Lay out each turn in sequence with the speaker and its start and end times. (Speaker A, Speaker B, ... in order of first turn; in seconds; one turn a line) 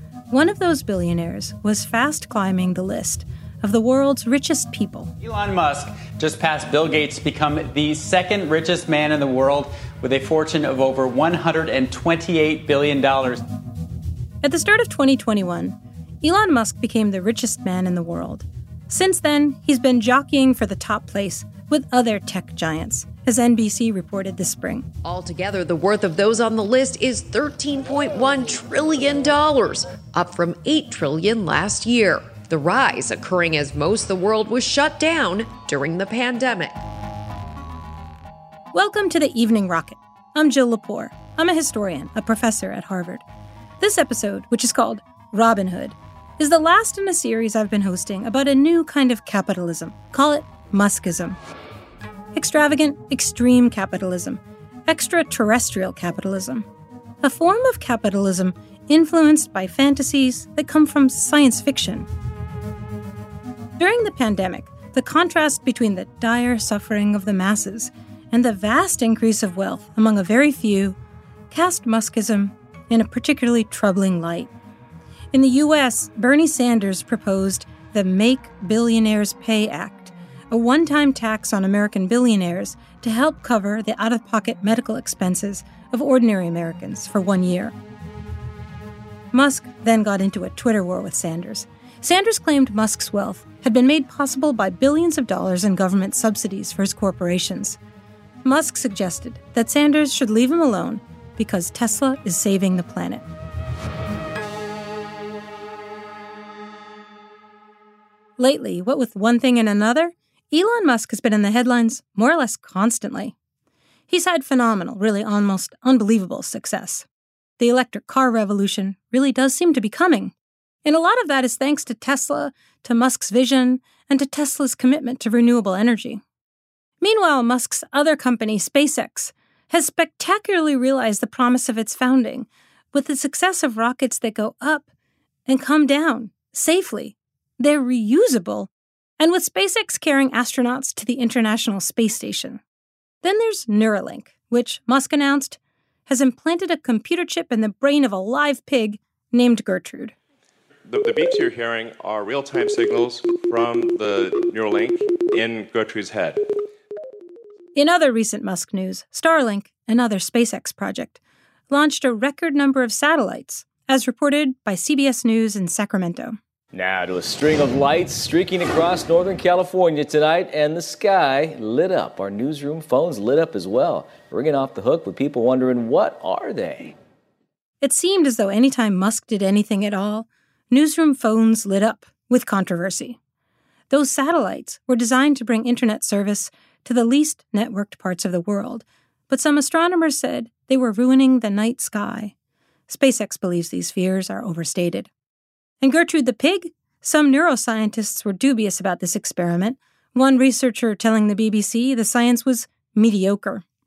Speaker A: 0.3-5.1
Speaker B: 5.2-13.4
Speaker A: 14.4-24.9
Speaker C: 25.0-36.8
Speaker A: 38.7-43.2
Speaker A: 43.8-51.4
Speaker A: 52.3-56.7
Speaker A: 57.2-62.1
Speaker A: 63.8-71.0
Speaker A: 71.5-74.5
Speaker A: 75.3-87.8
Speaker A: 89.3-97.8
Speaker A: 98.4-103.2
Speaker A: 108.4-113.3
Speaker A: 114.1-117.0
Speaker A: 117.6-120.3
Speaker A: 120.8-126.2
Speaker A: 127.0-134.9
Speaker A: 135.5-142.6
Speaker A: 143.2-150.2
Speaker D: 150.9-156.4
Speaker A: 157.8-161.2
Speaker A: 161.7-166.4
Speaker E: 166.7-176.9
Speaker A: 177.8-183.2
Speaker A: 183.9-192.3
Speaker A: 192.9-195.1
Speaker A: 195.8-203.6